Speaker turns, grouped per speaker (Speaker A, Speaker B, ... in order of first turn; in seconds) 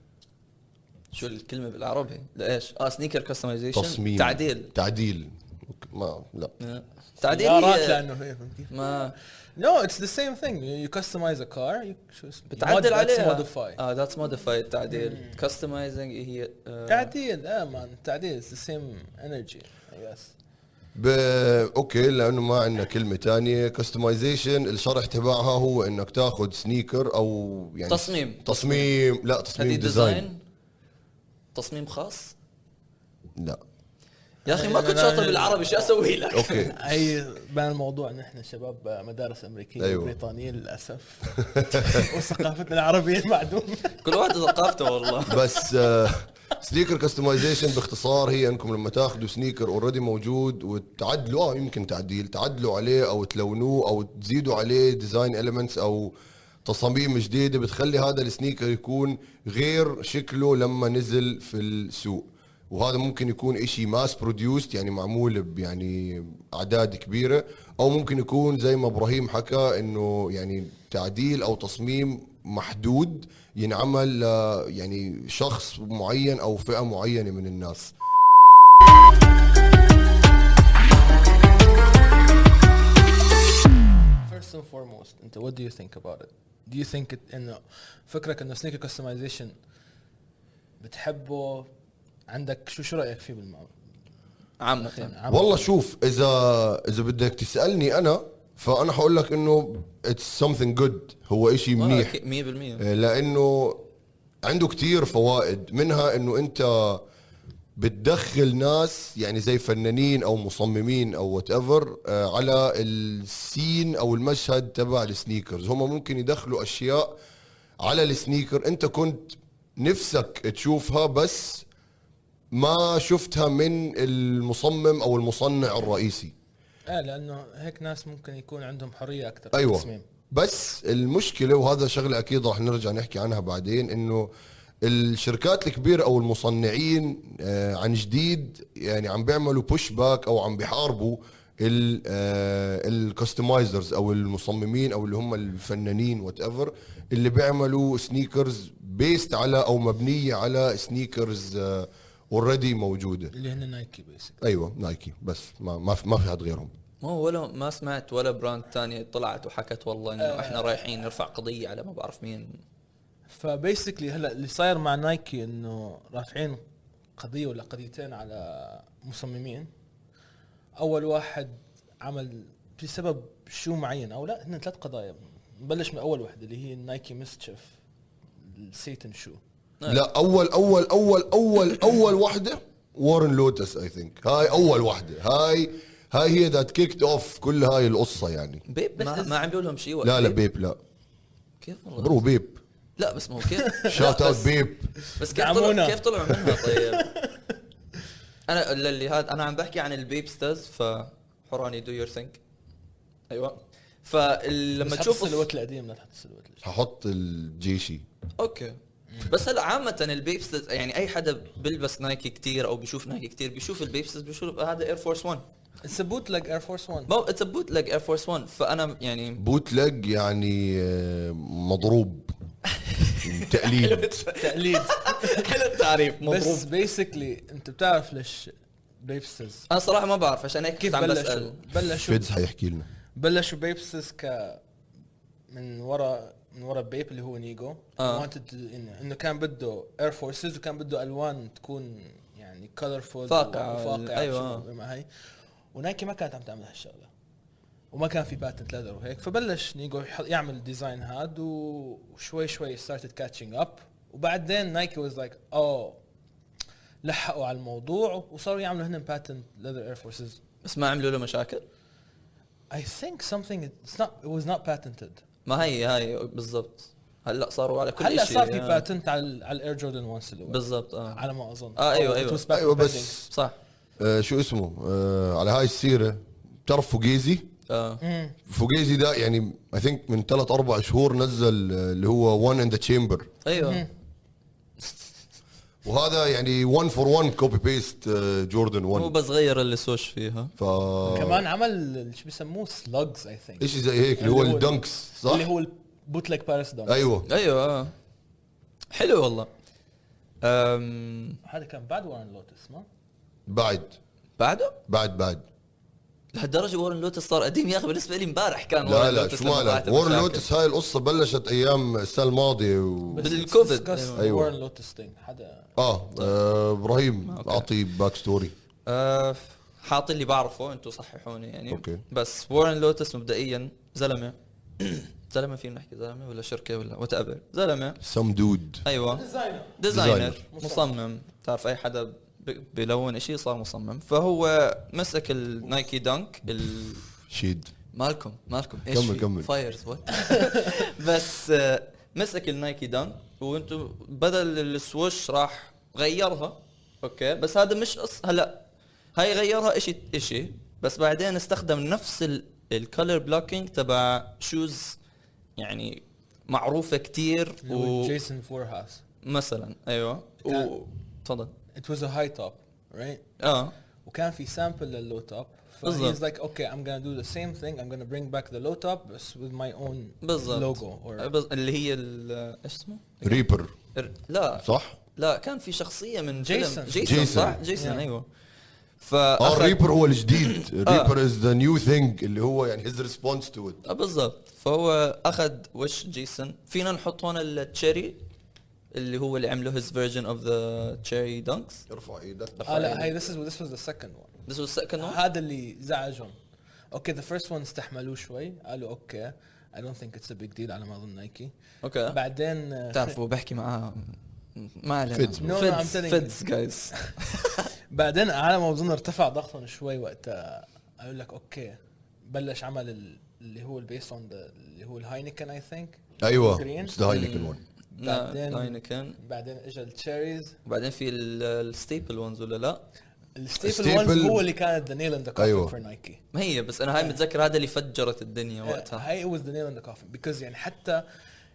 Speaker A: 1.1-4.7, 6.6-8.0, 8.7-9.1, 12.5-17.1, 27.9-28.9, 29.6-30.4, 31.6-32.4, 34.5-36.8, 44.0-45.4, 94.6-95.1, 101.8-102.8, 157.0-162.6, 188.7-190.4, 191.6-192.2, 193.0-194.5, 195.2-197.1, 198.5-202.4, 203.3-205.5, 208.4-215.4, 217.1-219.4, 222.8-226.7, 229.7-231.7, 238.0-238.3, 243.3-244.7, 260.6-261.6, 265.5-268.9, 270.5-271.2, 271.8-272.5, 277.7-278.0, 283.4-283.9, 288.9-290.5, 297.3-297.9, 298.9-299.5, 300.4-301.4, 304.4-304.8, 306.3-310.5, 313.2-314.2, 317.3-317.7, 318.9-328.0, 328.9-329.3, 329.8-337.0, 337.9-348.6, 349.1-355.0, 355.6-358.1, 359.2-361.5, 363.4-363.7, 365.9-366.2, 370.2-374.6, 375.2-378.3, 379.0-379.8, 380.3-381.1, 383.9-388.2, 388.9-391.8, 392.7-393.0, 394.5-395.2, 401.8-402.2, 402.9-407.7, 417.1-419.2, 420.7-422.8, 426.3-429.1
Speaker B: 3.7-6.5, 21.0-30.3, 36.3-36.8, 39.8-40.1, 41.4-42.1, 45.3-56.1, 56.6-77.9, 95.3-102.2, 102.8-103.8, 104.4-107.0, 107.8-117.1, 117.8-121.7, 122.5-126.3, 129.5-134.3, 134.8-153.3, 154.4-156.7, 179.9-188.6, 190.0-190.8, 192.0-192.6, 193.9-194.9, 206.6-208.0, 219.4-222.3, 223.2-224.2, 232.0-232.9, 272.5-273.3, 274.0-277.5, 278.5-283.3, 285.9-289.1, 290.6-291.4, 293.6-295.5, 296.9-297.3, 303.5-304.0, 304.9-305.4, 308.8-313.4, 314.2-314.5, 315.8-318.5, 321.7-322.0, 328.0-328.9, 329.9-330.4, 337.3-337.7, 338.9-339.5, 373.2-373.7, 374.6-375.0, 377.0-377.6, 379.4-383.8, 391.9-393.2, 405.1-405.6, 416.2-417.6, 423.6-424.4, 425.4-425.7
Speaker C: 7.2-13.8, 14.9-15.4, 16.9-20.3, 34.5-36.0, 36.5-45.6, 84.2-89.5, 90.8-91.7, 92.3-93.8, 94.8-95.7, 126.9-130.1, 153.3-154.4, 160.2-160.8, 163.3-166.6, 167.2-169.7, 170.8-177.8, 178.4-179.4, 189.0-189.4, 193.4-193.9, 195.0-197.4, 204.8-206.6, 215.8-217.1, 224.4-225.6, 226.2-229.7, 230.8-232.3, 233.2-234.6, 235.5-245.1, 245.7-247.1, 247.9-256.0, 257.0-260.4, 262.7-265.2, 268.0-273.2, 278.0-278.4, 283.5-283.9, 291.1-297.1, 301.4-302.9, 313.1-315.8, 329.1-329.8, 330.5-330.9, 357.6-359.0, 360.4-360.7, 361.7-363.2, 364.1-371.3, 376.4-378.1, 392.7-394.3, 395.0-396.4, 396.9-401.5, 402.1-403.2, 405.4-406.4, 407.9-417.1, 418.0-420.6, 423.4-426.2, 428.6-431.0